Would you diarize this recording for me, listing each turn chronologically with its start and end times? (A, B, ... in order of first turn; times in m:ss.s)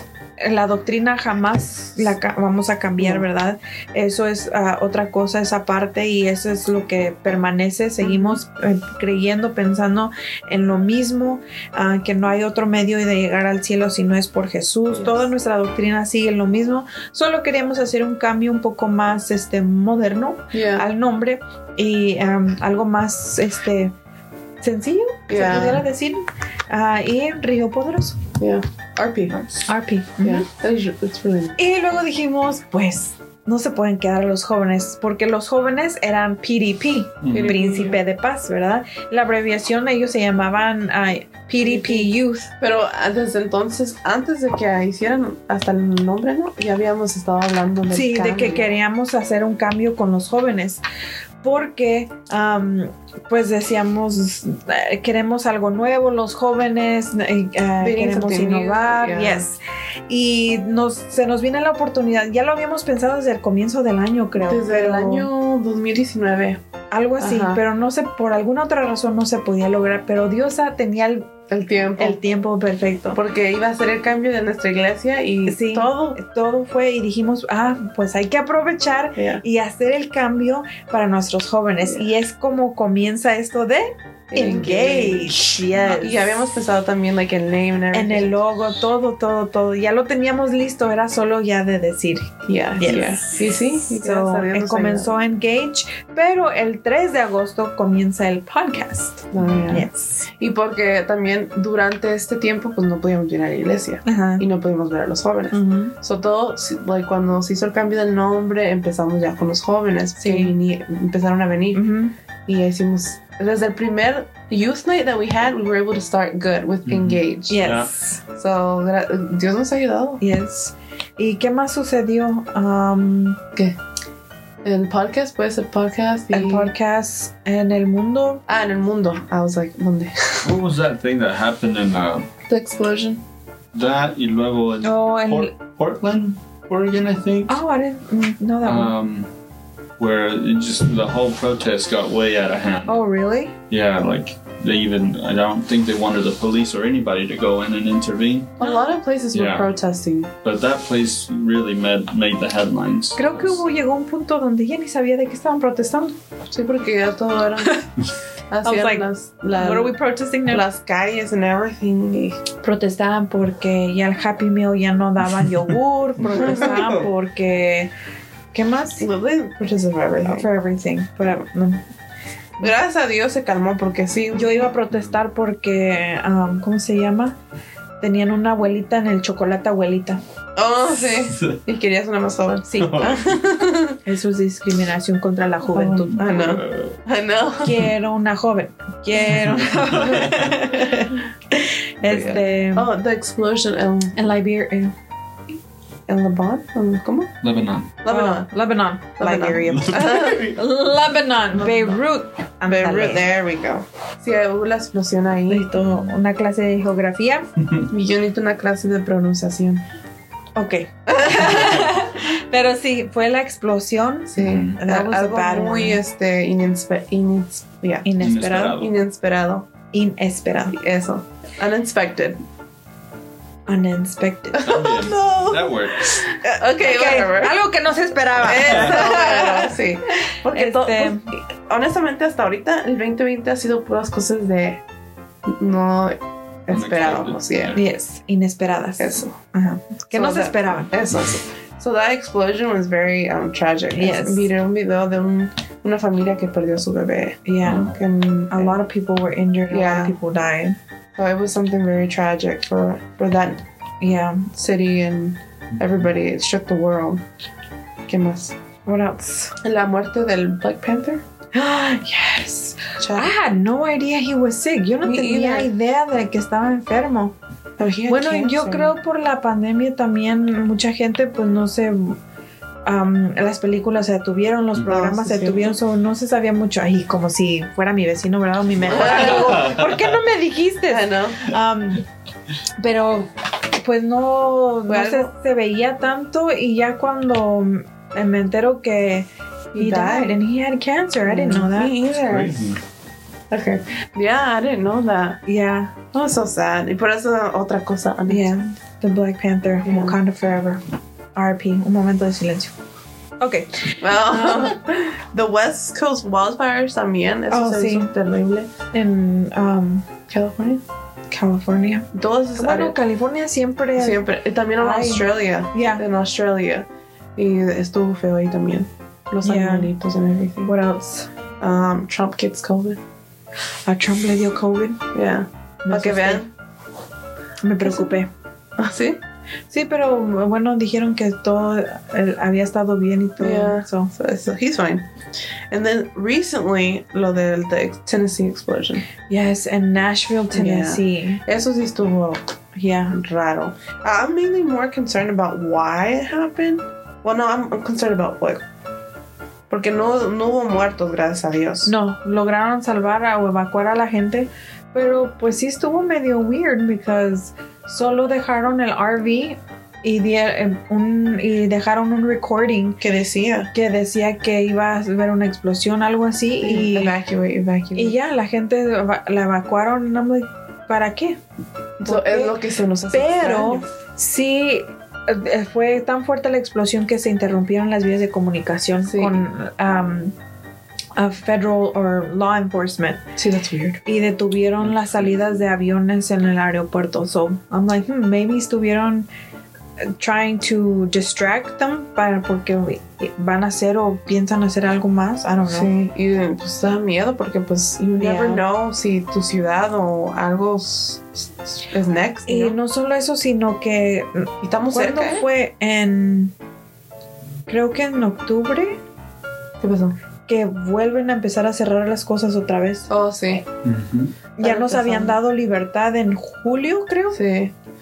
0:00.4-0:23.9 A
0:03.0-0:03.3 B
0:08.0-0:08.4 B
0:15.0-0:15.2 B
0:20.5-0:20.9 B
0:24.6-0:28.2 A
0:25.3-0:25.8 B
0:28.4-0:29.4 B
0:29.3-0:29.6 C
0:29.7-0:30.5 A
0:30.2-0:31.6 B
0:31.6-0:42.5 A
0:37.2-0:37.6 C
0:37.3-0:38.0 B
0:41.6-0:48.7 B
0:47.9-0:50.8 A
0:51.4-1:05.3 A
0:57.8-0:59.5 B
1:04.4-1:06.6 B
1:06.9-1:11.3 A
1:07.2-1:07.6 B
1:11.5-1:12.2 B
1:12.0-1:13.2 A
1:13.1-1:16.2 B
1:15.5-1:26.3 A
1:19.2-1:19.4 B
1:21.8-1:22.1 B
1:24.3-1:28.5 B
1:27.9-1:40.2 A
1:32.5-1:35.1 B
1:39.3-1:39.9 B
1:39.4-1:39.8 C
1:40.4-1:51.9 B
1:44.1-1:44.4 A
1:45.5-1:45.9 A
1:50.2-1:50.5 A
1:51.7-1:52.1 A
1:52.5-1:57.6 B
1:56.9-1:57.9 C
1:57.5-1:58.2 A
1:58.4-2:00.2 B
2:00.2-2:03.4 A
2:04.6-2:06.7 B
2:06.3-2:08.4 A
2:08.5-2:10.5 B
2:10.4-2:12.3 C
2:12.5-2:13.2 B
2:13.7-2:17.6 C
2:14.8-2:15.6 A
2:17.5-2:18.9 A
2:18.6-2:19.3 C
2:20.0-2:23.0 C
2:22.9-2:23.5 A
2:23.7-2:28.6 C
2:28.6-2:30.3 B
2:29.3-2:29.7 C
2:30.4-2:33.6 C
2:33.2-2:36.2 A
2:36.5-2:37.8 B
2:38.5-2:40.0 B
2:38.6-2:40.6 A
2:40.5-2:42.5 B
2:42.6-2:47.9 A
2:46.2-2:47.1 C
2:46.2-2:46.8 B
2:48.5-2:49.1 A
2:49.0-2:50.5 B
2:50.2-2:51.8 A
2:52.6-2:54.6 B
2:54.3-2:57.4 A
2:58.0-3:00.2 A
3:00.6-3:04.0 B
3:01.3-3:01.6 C
3:02.7-3:03.0 A
3:02.8-3:03.4 C
3:04.0-3:06.3 A
3:05.7-3:07.8 B
3:06.1-3:07.0 C
3:07.6-3:12.9 A
3:09.3-3:10.6 C
3:12.0-3:14.2 B
3:14.2-3:14.9 A
3:16.1-3:17.3 B
3:17.4-3:17.9 C
3:18.0-3:18.5 B
3:18.1-3:23.2 A
3:19.2-3:20.4 B
3:19.7-3:20.6 C
3:22.7-3:25.7 B
3:25.5-3:27.5 A
3:25.8-3:26.2 C
3:27.6-3:27.9 C
3:27.9-3:29.8 B
3:30.6-3:36.0 A
3:31.1-3:31.9 B
3:34.3-3:38.1 B
3:34.4-3:34.8 C
3:38.0-3:38.8 A
3:38.2-3:39.0 C
3:38.8-3:39.7 B
3:39.9-3:40.8 A
3:40.7-3:42.4 B
3:43.7-3:44.7 A
3:44.6-3:47.6 B
3:44.6-3:46.2 C
3:46.4-3:49.8 A
3:48.4-3:54.8 B
3:50.5-3:51.3 A
3:55.5-3:57.8 B
3:56.7-3:57.8 C
3:57.7-4:00.9 A
3:59.0-3:59.4 B
4:00.1-4:08.8 B
4:03.9-4:04.5 A
4:07.4-4:07.9 A
4:07.6-4:08.0 C
4:08.5-4:10.8 A
4:09.7-4:10.2 B
4:11.2-4:13.6 B
4:14.0-4:14.5 A
4:14.6-4:17.2 B
4:18.1-4:18.6 B
4:18.9-4:19.5 A
4:19.6-4:21.2 B
4:21.5-4:27.4 A
4:23.0-4:23.3 B
4:25.0-4:25.7 B
4:27.8-4:28.9 B
4:28.1-4:32.2 A
4:32.8-4:42.1 A
4:34.9-4:35.8 B
4:38.8-4:40.1 C
4:38.9-4:39.7 B
4:40.9-4:41.4 B
4:42.8-4:52.0 A
4:44.9-4:45.3 B
4:49.7-4:50.4 B
4:51.3-4:52.7 B
4:52.2-4:52.8 C
4:53.5-4:55.4 B
4:55.5-4:56.0 A
4:56.1-4:58.5 B
4:58.3-5:00.8 A
4:59.8-5:00.2 B
5:01.4-5:02.7 A
5:03.4-5:04.8 A
5:04.0-5:08.7 B
5:07.5-5:08.1 A
5:08.9-5:10.1 A
5:10.3-5:10.8 B
5:11.3-5:14.2 A
5:12.1-5:13.0 B
5:14.0-5:16.9 B
5:14.8-5:16.0 A
5:17.4-5:20.7 B
5:19.4-5:19.9 A
5:20.6-5:21.3 A
5:21.6-5:23.0 B
5:23.9-5:25.0 A
5:25.1-5:26.5 B
5:25.8-5:26.4 A
5:27.6-5:28.3 A
5:27.8-5:28.2 B
5:28.8-5:29.2 B
5:29.7-5:34.1 A
5:33.4-5:35.1 B
5:35.7-5:39.1 B
5:39.3-5:41.4 A
5:40.5-5:42.4 B
5:42.8-5:43.2 A
5:43.1-5:48.6 B
5:49.7-5:51.9 B
5:51.8-6:03.0 A
6:03.0-6:03.7 B
6:03.7-6:07.1 A
6:06.6-6:08.2 B
6:08.0-6:11.4 A
6:12.0-6:13.8 B
6:12.0-6:12.6 A
6:13.1-6:20.4 A
6:19.1-6:19.4 B
6:21.2-6:23.2 A
6:23.4-6:24.0 B
6:24.0-6:29.3 A
6:24.8-6:25.6 C
6:30.0-6:35.9 A
6:35.7-6:42.8 B
6:38.2-6:38.6 A
6:42.5-6:46.5 A
6:44.6-6:45.5 B
6:47.7-6:49.0 A
6:49.8-6:50.2 B
6:50.5-6:53.1 A
6:53.1-6:53.7 B
6:53.8-6:54.3 C
6:54.6-6:57.4 A
6:54.6-6:55.4 B
6:57.3-6:57.7 B